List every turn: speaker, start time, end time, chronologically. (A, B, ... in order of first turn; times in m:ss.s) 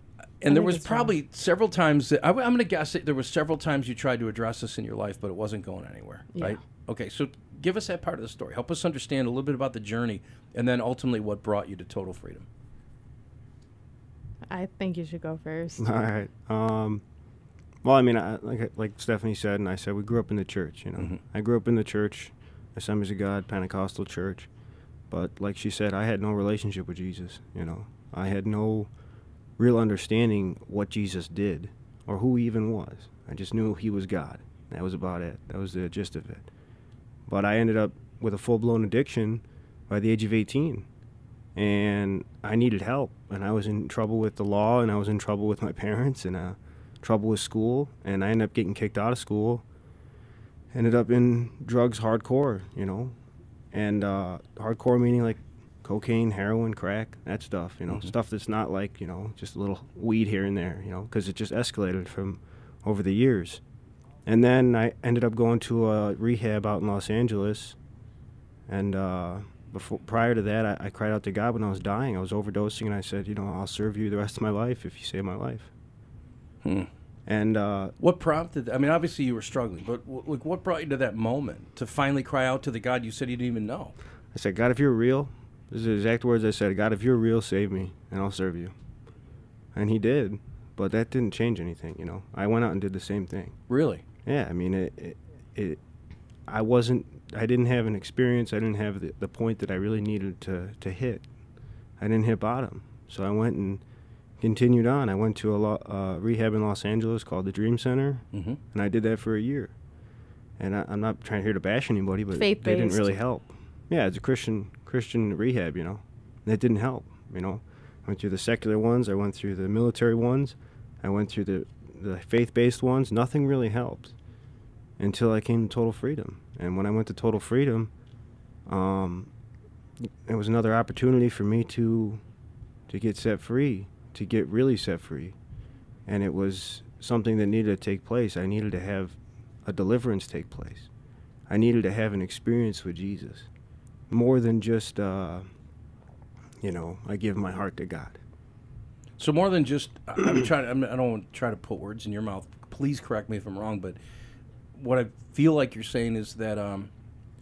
0:00.4-0:12.4 A
0:00.5-0:01.1 B
0:14.5-0:15.8 B
0:15.8-0:17.0 C
0:17.8-0:24.5 C
0:25.1-0:28.9 C
0:29.6-0:36.5 C
0:37.3-0:40.9 C
0:41.6-0:49.6 C
0:50.7-0:53.2 C
0:53.7-1:03.6 C
1:04.2-1:07.8 C
1:08.7-1:15.7 C
1:16.6-1:16.9 A
1:17.2-1:17.9 C
1:18.0-1:23.9 A
1:24.3-1:28.7 C
1:29.7-1:33.6 C
1:33.7-1:34.0 A
1:34.2-1:35.8 C
1:36.5-1:41.2 C
1:42.0-1:43.8 C
1:44.4-1:49.7 C
1:48.3-1:48.6 A
1:50.6-2:04.1 C
1:52.3-1:53.2 B
2:05.0-2:07.9 C
2:08.6-2:09.3 C
2:10.0-2:12.2 C
2:12.9-2:15.4 C
2:16.1-2:20.9 C
2:21.5-2:23.5 C
2:24.1-2:25.4 C
2:26.6-2:28.2 C
2:29.2-2:34.0 A
2:34.8-2:36.9 A